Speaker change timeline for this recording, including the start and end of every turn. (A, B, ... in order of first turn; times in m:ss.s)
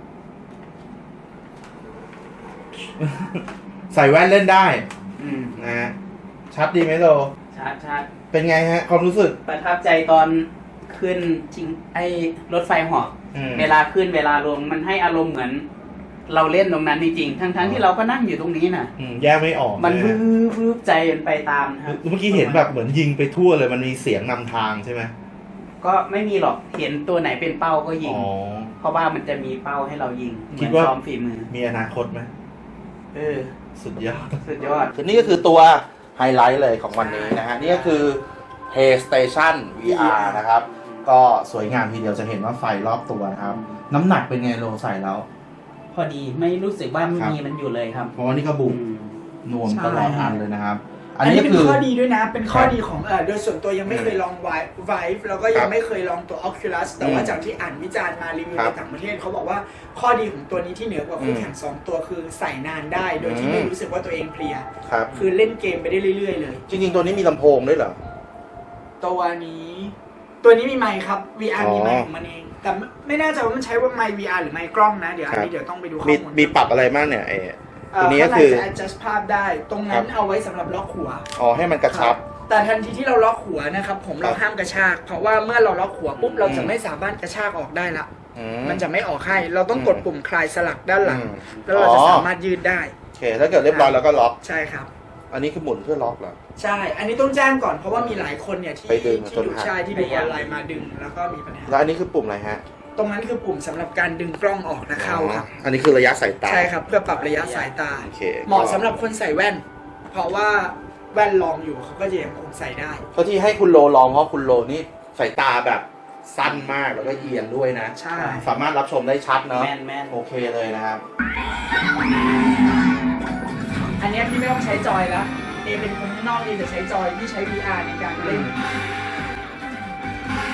0:03.0-0:04.8 A
0:05.2-0:05.6 B
0:05.6-0:05.9 A
0:06.5-0:07.3 A
0:07.5-0:08.1 B
0:08.3-0:09.4 A
0:09.4-0:15.6 B
0:13.3-0:13.7 A
0:16.3-0:18.9 B
0:17.6-0:17.8 A
0:19.0-0:20.2 A
0:19.8-0:22.7 B
0:21.8-0:25.1 A
0:25.8-0:28.2 B
0:28.0-0:28.7 A
0:28.8-0:31.5 B
0:30.5-0:30.9 A
0:31.5-0:32.3 A
0:33.1-0:33.5 B
0:33.8-0:34.4 A
0:34.4-0:35.4 B
0:34.9-0:45.2 A
0:37.0-0:38.1 B
0:39.8-0:41.0 B
0:43.4-0:43.8 B
0:45.9-0:48.1 B
0:48.1-0:48.8 A
0:48.6-0:49.1 B
0:49.4-0:51.8 A
0:49.6-0:50.3 C
0:49.9-0:50.4 B
0:51.2-1:06.6 C
0:53.9-0:54.2 A
0:57.0-0:57.4 A
1:01.2-1:01.5 A
1:03.2-1:03.7 A
1:04.8-1:05.1 A
1:06.7-1:08.0 A
1:09.0-1:16.6 C
1:11.6-1:12.1 A
1:16.0-1:18.7 A
1:17.9-1:21.3 C
1:21.3-1:22.2 A
1:21.9-1:28.1 C
1:26.2-1:26.7 B
1:26.4-1:26.7 A
1:28.3-1:28.8 A
1:28.6-1:32.9 C
1:29.7-1:30.0 A
1:31.0-1:32.3 A
1:33.2-1:34.4 A
1:33.7-1:34.9 C
1:35.3-1:36.4 A
1:36.6-1:41.8 C
1:38.0-1:38.2 A
1:38.9-1:39.8 A
1:39.9-1:40.8 B
1:41.7-1:42.6 A
1:43.0-1:45.5 C
1:44.9-1:46.7 A
1:46.4-1:53.0 C
1:46.9-1:47.7 B
1:48.0-1:48.9 A
1:53.1-2:01.0 A
1:57.0-1:57.5 B
1:58.0-1:58.5 C
1:59.5-2:00.1 B
2:04.0-2:08.5 C
2:08.2-2:08.6 A